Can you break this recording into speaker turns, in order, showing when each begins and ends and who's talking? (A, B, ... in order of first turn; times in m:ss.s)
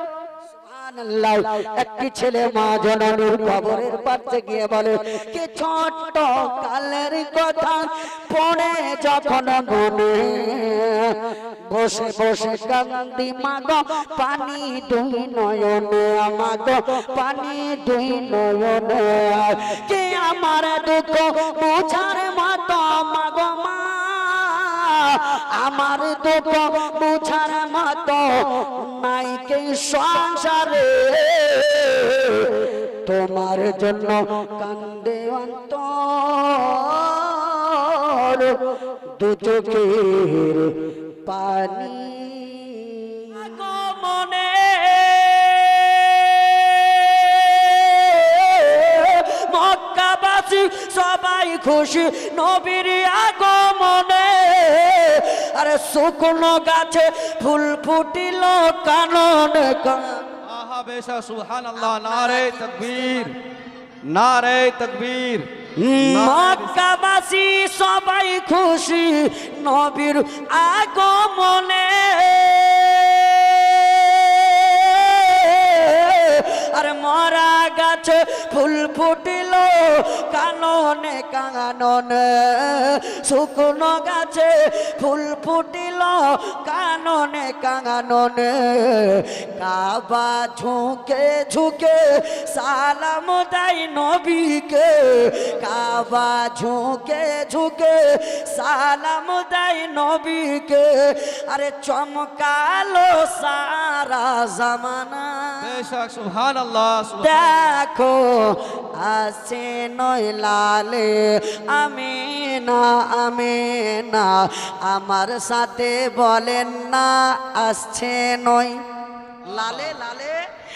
0:00.5-0:38.6 A
0:39.1-1:00.2 A
1:00.5-1:03.4 B
1:01.9-1:02.6 A
1:04.0-1:05.5 B
1:05.8-1:45.6 A
1:06.0-1:06.8 B
1:45.6-1:47.6 B
1:47.2-1:58.8 A
1:59.5-2:00.0 B
1:59.5-2:00.4 A